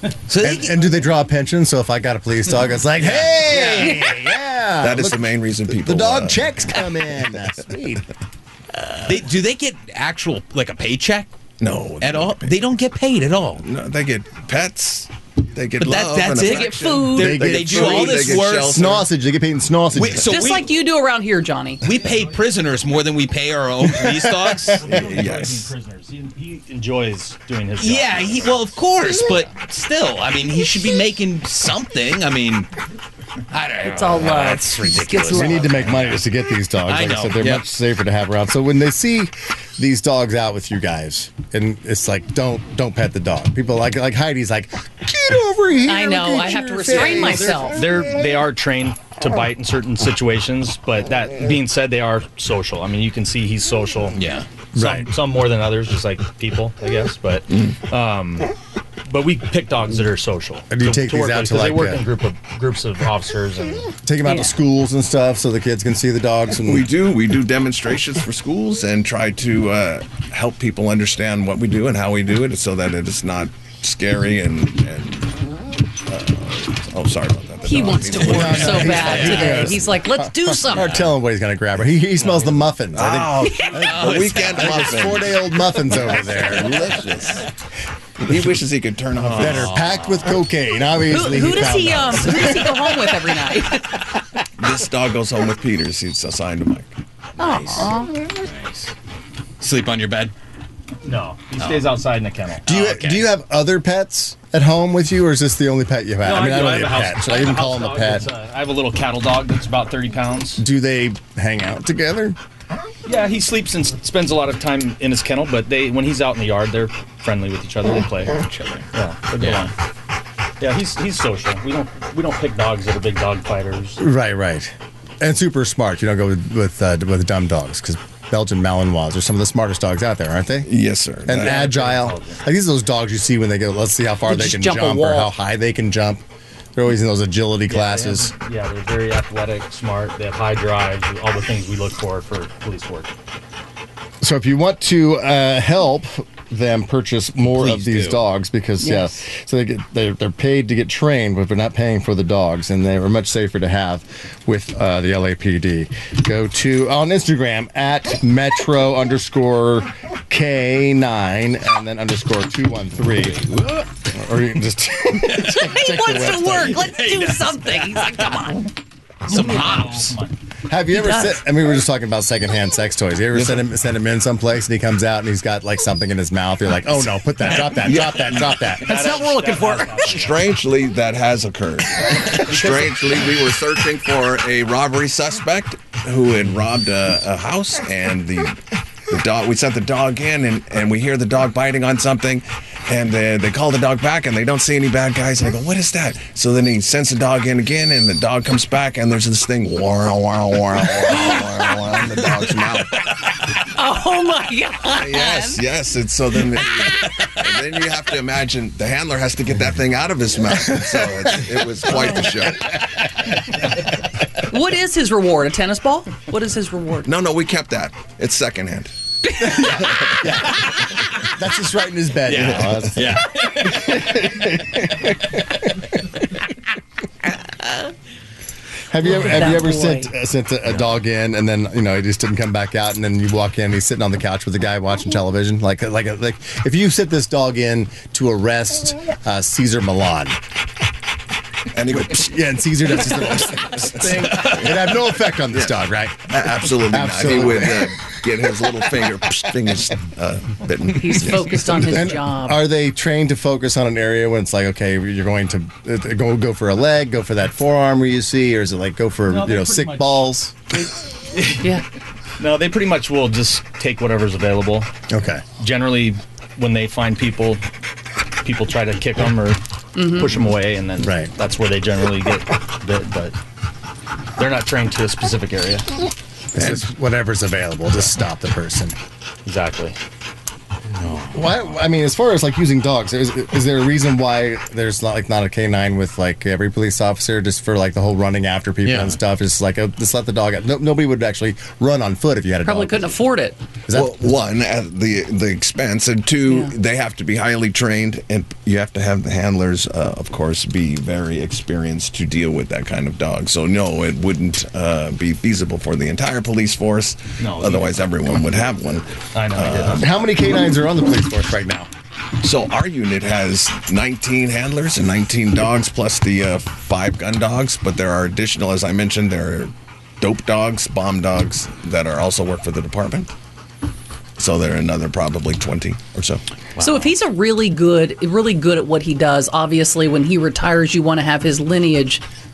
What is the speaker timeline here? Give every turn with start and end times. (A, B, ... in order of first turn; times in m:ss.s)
0:00.3-0:00.9 A
0:00.4-0:08.1 B
0:03.0-0:03.9 A
0:04.8-0:06.6 C
0:09.0-0:11.3 A
0:11.6-0:12.6 C
0:12.0-0:13.6 A
0:13.6-0:19.1 C
0:15.8-0:19.0 A
0:16.4-0:17.4 D
0:17.2-0:20.4 B
0:19.9-0:20.7 A
0:20.2-0:21.8 D
0:21.8-0:24.8 A
0:23.8-0:24.8 B
0:24.7-0:28.6 E
0:24.9-0:25.7 C
0:27.8-0:32.7 A
0:33.5-0:36.2 A
0:33.8-0:35.8 D
0:35.3-0:47.8 B
0:36.8-0:37.6 A
0:45.8-0:47.8 D
0:47.5-0:54.2 E
0:54.1-0:54.5 A
0:54.7-0:55.1 B
0:54.7-0:58.5 E
0:59.1-1:03.9 E
1:00.7-1:02.0 B
1:04.0-1:06.9 B
1:04.2-1:04.5 D
1:06.6-1:15.5 C
1:16.0-1:19.7 C
1:17.6-1:21.0 D
1:18.2-1:23.6 B
1:18.6-1:19.6 A
1:22.9-1:25.4 C
1:23.4-1:23.9 D
1:23.8-1:24.8 A
1:24.4-1:26.8 B
1:26.2-1:27.5 C
1:28.2-1:29.8 C
1:29.2-1:30.4 A
1:29.3-1:33.0 B
1:31.1-1:34.0 D
1:34.6-1:36.9 C
1:37.4-1:38.2 D
1:37.4-1:38.9 A
1:39.6-1:40.3 A
1:41.0-1:42.7 E
1:41.6-1:41.9 A
1:42.6-1:43.3 A
1:42.6-1:48.3 B
1:46.2-1:50.6 E
1:50.6-1:52.4 B
1:53.0-1:58.4 E
1:58.3-1:58.9 A
1:58.9-1:59.7 E
1:59.4-1:59.7 A
2:00.6-2:04.0 E
2:04.0-2:10.7 B
2:10.6-2:11.6 C
2:11.2-2:18.3 B
2:11.3-2:12.4 E
2:14.3-2:15.3 D
2:17.7-2:23.1 E
2:24.2-2:43.5 B
2:27.5-2:28.2 A
2:28.8-2:29.1 D
2:43.2-2:43.9 A
2:44.1-2:47.0 B
2:45.4-2:48.6 D
2:46.8-2:48.5 A
2:49.2-2:50.2 A
2:49.3-2:50.4 E
2:50.7-2:58.9 B
2:50.9-2:51.4 D
2:53.3-2:53.7 C
2:57.7-2:58.6 C
2:58.8-3:00.0 D
2:58.8-3:00.5 E
3:00.0-3:23.0 C
3:21.1-3:21.5 D
3:23.7-3:25.6 D
3:24.9-3:32.8 C
3:34.5-3:37.1 D
3:37.0-3:38.9 C
3:39.3-3:39.8 D
3:39.4-3:40.7 B
3:39.6-3:40.3 C
3:41.2-3:45.6 B
3:42.2-3:44.3 A
3:48.9-4:00.4 B
3:49.0-3:50.1 D
4:01.7-4:05.0 C
4:01.9-4:08.0 B
4:05.5-4:12.0 C
4:10.9-4:12.6 D
4:11.9-4:20.5 B
4:19.2-4:21.8 E
4:22.4-4:24.9 E
4:25.1-4:25.4 B
4:25.6-4:27.6 E
4:28.4-4:33.4 E
4:29.9-4:30.4 D
4:31.0-4:31.3 B
4:34.4-4:35.9 E
4:36.5-4:39.0 B
4:39.4-4:40.0 E
4:40.9-4:41.6 A
4:41.3-4:53.2 B
4:48.8-4:49.2 A
4:52.6-4:53.6 D
4:53.9-4:54.2 B
4:53.9-5:10.1 C
4:56.4-4:56.7 D
5:07.4-5:08.0 E
5:09.3-5:10.0 E
5:09.9-5:11.9 B
5:12.4-5:23.3 C
5:24.4-5:26.4 C
5:26.8-5:27.1 A
5:26.8-5:32.2 D